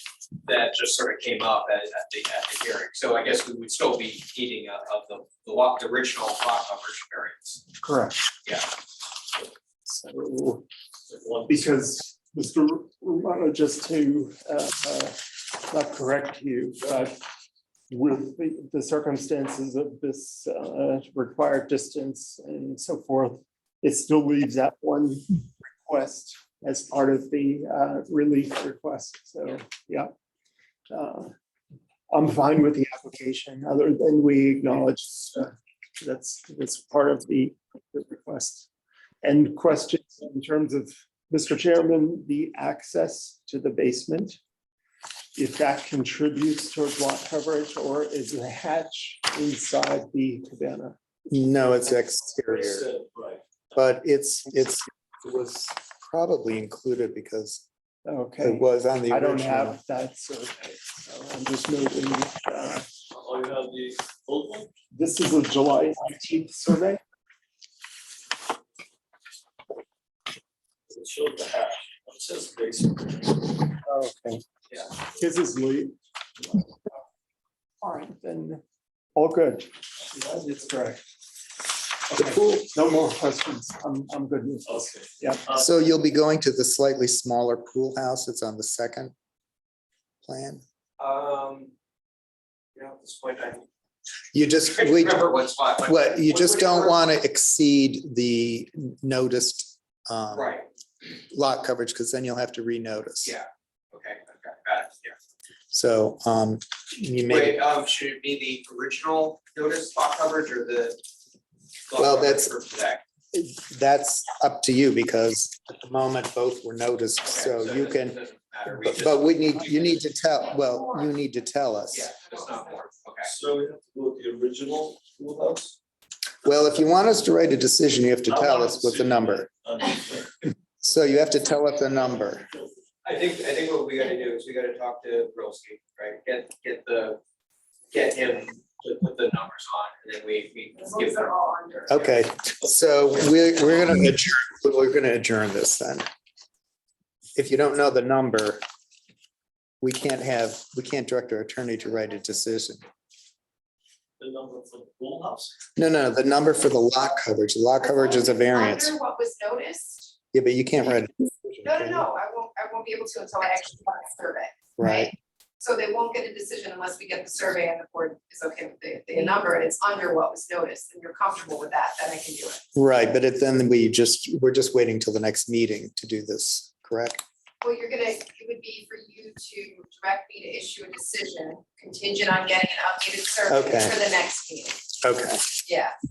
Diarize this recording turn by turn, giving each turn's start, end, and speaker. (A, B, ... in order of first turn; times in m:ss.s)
0:00.4-0:07.6 A
0:07.8-0:08.3 B
0:09.9-0:10.6 B
0:11.1-0:11.8 C
0:11.5-0:17.2 B
0:17.9-0:30.1 B
0:30.9-0:31.3 B
0:32.1-0:38.7 B
0:39.2-0:44.4 B
0:45.4-0:51.0 B
0:51.3-0:52.9 D
0:52.5-0:53.4 C
0:53.7-0:57.6 D
0:58.0-1:02.9 B
0:58.4-0:59.8 D
1:03.1-1:04.7 C
1:04.9-1:07.0 B
1:10.9-1:13.6 C
1:13.9-1:14.4 B
1:15.2-1:15.9 B
1:16.5-1:16.9 B
1:17.8-1:18.6 B
1:19.2-1:19.7 B
1:20.2-1:20.5 C
1:20.3-1:21.0 B
1:22.1-1:25.5 B
1:24.7-1:25.6 C
1:25.5-1:29.1 D
1:30.2-1:30.6 D
1:31.0-1:31.7 A
1:32.8-1:33.6 A
1:34.3-1:35.3 D
1:34.7-1:37.0 A
1:35.8-1:40.6 D
1:40.3-1:40.7 A
1:41.3-1:43.3 D
1:43.2-1:45.2 A
1:45.7-1:47.6 D
1:47.3-1:51.0 A
1:51.9-1:53.0 A
1:52.0-1:52.5 D
1:53.3-1:58.2 D
1:57.2-2:00.1 A
1:58.7-2:02.1 D
2:00.4-2:01.2 E
2:01.9-2:03.3 A
2:02.0-2:02.8 E
2:03.2-2:05.8 C
2:06.4-2:09.5 D
2:08.3-2:10.3 C
2:10.8-2:12.5 D
2:13.0-2:17.2 A
2:17.9-2:21.3 A
2:20.8-2:21.9 E
2:21.8-2:23.9 A
2:21.9-2:26.1 D
2:27.4-2:28.6 D
2:29.8-2:32.8 D
2:31.9-2:32.3 E
2:34.2-2:35.5 C
2:35.8-2:38.9 D
2:37.8-2:40.1 E
2:40.3-2:42.1 D
2:41.6-2:52.6 E
2:44.8-2:45.1 D
2:52.8-2:57.2 D
2:57.6-3:04.8 E
3:03.5-3:04.0 D
3:05.0-3:05.5 D
3:05.6-3:05.9 E